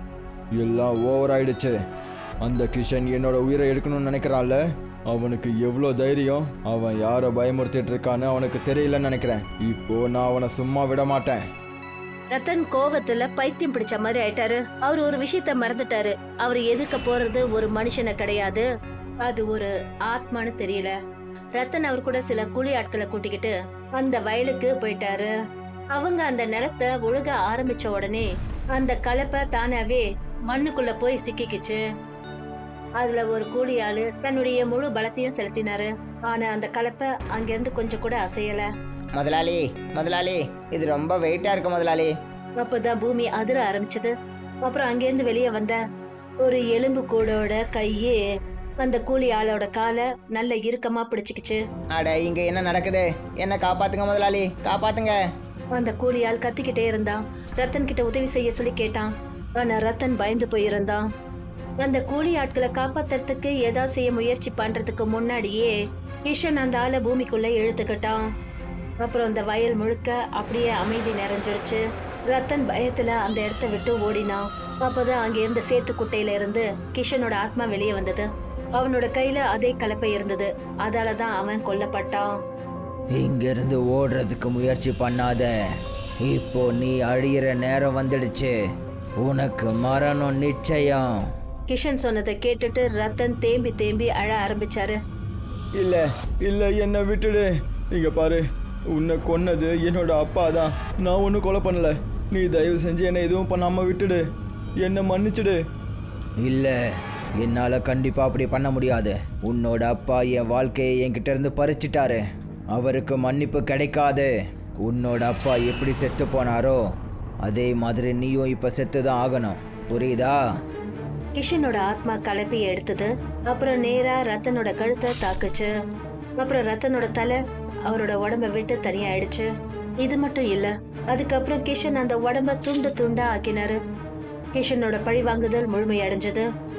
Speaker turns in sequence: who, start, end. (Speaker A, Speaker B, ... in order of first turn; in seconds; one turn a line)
Speaker A: 0.6-1.8
Speaker A: 2.4-11.4
Speaker B: 12.3-18.7
Speaker B: 19.2-20.9
Speaker B: 21.6-25.3
Speaker B: 25.9-31.8
Speaker B: 33.0-38.7
Speaker C: 39.1-42.1
Speaker B: 42.6-44.1
Speaker B: 44.6-45.8
Speaker B: 46.4-48.2
Speaker B: 48.8-51.6
Speaker C: 51.9-55.2
Speaker B: 55.7-61.0
Speaker B: 61.8-65.8
Speaker B: 66.3-68.2
Speaker B: 69.0-82.3
Speaker C: 83.1-85.5
Speaker C: 86.2-88.5
Speaker C: 89.2-91.0
Speaker B: 91.7-95.0
Speaker A: 95.8-104.2
Speaker A: 104.8-105.6
Speaker C: 106.4-106.8
Speaker C: 107.4-114.3
Speaker C: 114.8-116.8
Speaker C: 117.4-120.4
Speaker B: 121.3-125.7
Speaker B: 126.4-129.5
Speaker B: 130.0-133.8
Speaker B: 134.5-136.4